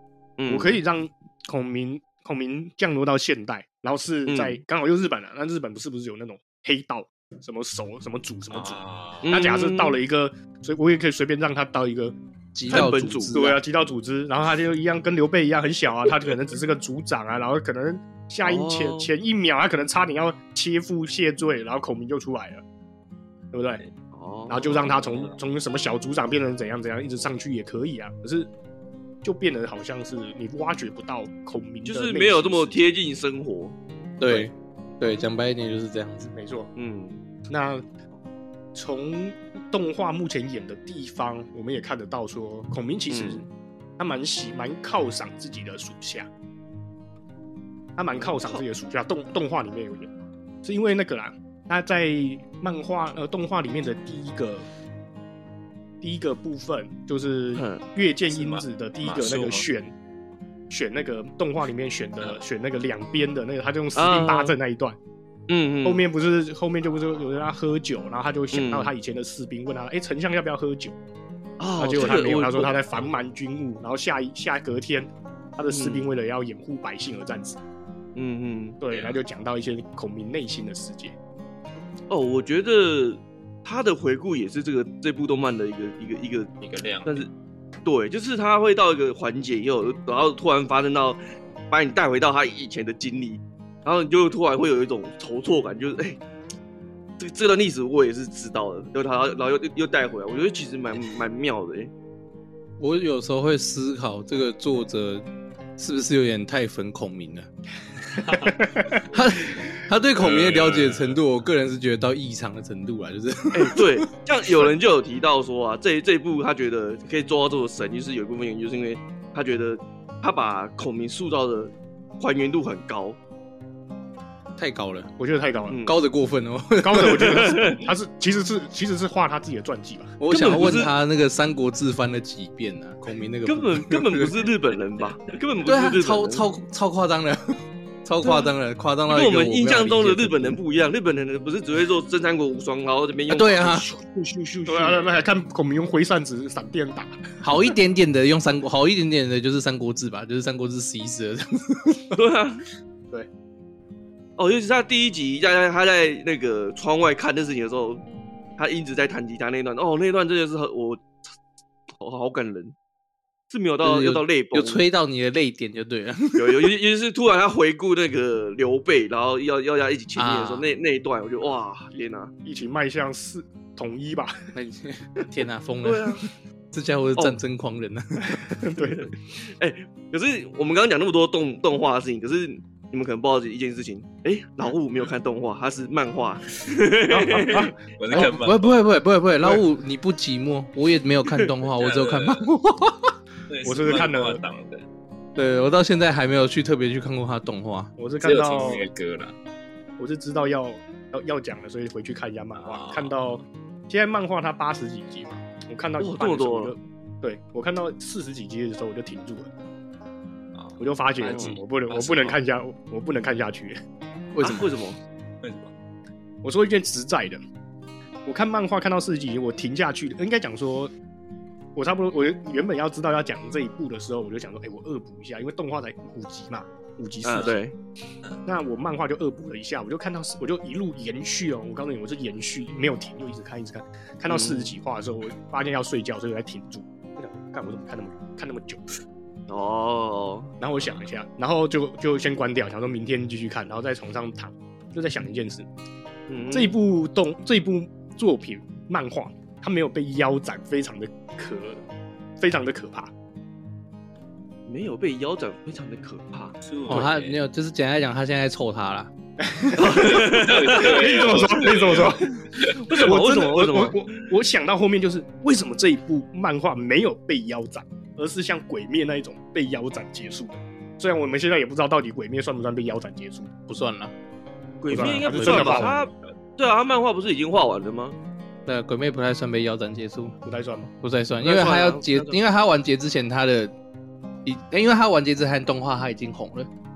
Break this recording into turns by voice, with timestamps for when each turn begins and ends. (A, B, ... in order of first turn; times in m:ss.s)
0:00.4-0:00.8 A
0:00.5-0:12.2 B
0:04.3-0:04.6 A
0:08.5-0:09.3 C
0:09.2-0:10.0 A
0:12.6-0:13.6 D
0:12.7-0:13.4 A
0:12.7-0:22.6 B
0:18.4-0:19.1 A
0:23.5-0:23.8 B
0:24.1-0:24.6 A
0:24.5-0:28.5 B
0:24.7-0:25.4 C
0:29.2-0:32.8 B
0:31.8-0:33.8 A
0:34.2-0:36.3 D
0:36.3-0:36.7 B
0:36.8-0:37.2 A
0:37.5-0:37.8 B
0:38.7-0:43.5 B
0:43.1-0:43.4 A
0:44.0-0:46.3 B
0:48.0-0:50.1 B
0:48.2-0:48.6 A
0:50.6-0:54.7 B
0:56.0-0:59.9 B
0:57.6-0:57.8 A
0:58.3-0:59.7 C
1:00.7-1:05.0 B
1:04.0-1:04.6 A
1:05.5-1:06.0 A
1:05.8-1:11.0 B
1:08.5-1:08.9 A
1:11.6-1:12.8 A
1:11.8-1:17.6 B
1:15.7-1:16.1 A
1:18.2-1:18.8 A
1:18.8-1:21.2 B
1:18.9-1:19.2 C
1:22.1-1:26.5 A
1:26.6-1:27.2 C
1:27.0-1:27.3 A
1:27.8-1:31.2 A
1:31.7-1:36.2 A
1:37.2-1:41.9 A
1:42.8-1:45.2 D
1:45.8-1:47.5 D
1:48.3-1:49.0 B
1:49.0-1:53.9 D
1:50.2-1:51.2 C
1:53.5-2:03.2 A
2:04.6-2:05.1 D
2:05.2-2:05.8 B
2:05.7-2:06.0 A
2:05.8-2:07.4 D
2:06.8-2:10.2 B
2:07.1-2:07.8 A
2:10.2-2:14.3 D
2:10.3-2:10.9 A
2:13.5-2:16.5 A
2:15.7-2:20.6 D
2:18.2-2:18.5 A
2:19.1-2:25.1 A
2:23.3-2:23.9 D
2:24.7-2:27.2 B
2:27.4-2:32.0 D
2:32.2-2:32.6 A
2:34.4-2:38.0 A
2:38.6-2:41.2 A
2:42.0-2:42.8 A
2:43.5-2:44.8 A
2:43.8-2:46.4 D
2:46.4-2:52.3 A
2:50.2-2:50.7 D
2:52.4-2:54.4 B
2:54.6-2:56.2 D
2:55.8-2:56.3 A
2:56.7-2:58.5 D
2:58.4-2:59.1 B
2:58.9-3:07.7 A
3:07.1-3:07.7 B
3:08.0-3:08.8 C
3:08.1-3:13.1 D
3:11.8-3:12.4 C
3:13.5-3:14.8 C
3:13.6-3:14.4 B
3:15.4-3:17.9 D
3:18.0-3:18.9 B
3:18.2-3:19.4 C
3:20.0-3:29.5 B
3:22.6-3:23.1 C
3:26.0-3:26.8 A
3:30.6-3:32.4 C
3:30.8-3:33.8 B
3:31.3-3:31.6 A
3:34.3-3:34.7 D
3:34.4-3:35.0 A
3:35.4-3:35.7 C
3:36.4-3:37.4 B
3:38.3-3:40.9 B
3:41.8-3:47.6 B
3:47.2-3:47.7 A
3:48.4-3:59.0 B
3:54.3-3:54.7 A
3:59.5-4:00.5 A
4:00.6-4:05.7 B
4:06.3-4:06.8 A
4:06.5-4:11.8 B
4:12.4-4:13.1 B
4:14.7-4:16.6 A
4:16.6-4:17.4 C
4:16.9-4:19.1 D
4:19.4-4:33.5 B
4:19.8-4:22.1 A
4:19.9-4:22.9 C
4:22.8-4:24.1 A
4:33.7-4:34.1 D
4:34.8-4:38.2 A
4:34.9-4:36.1 B
4:34.9-4:36.0 D
4:38.7-4:40.4 D
4:40.4-4:40.9 B
4:41.0-4:43.7 D
4:41.4-4:42.4 A
4:44.4-4:46.7 D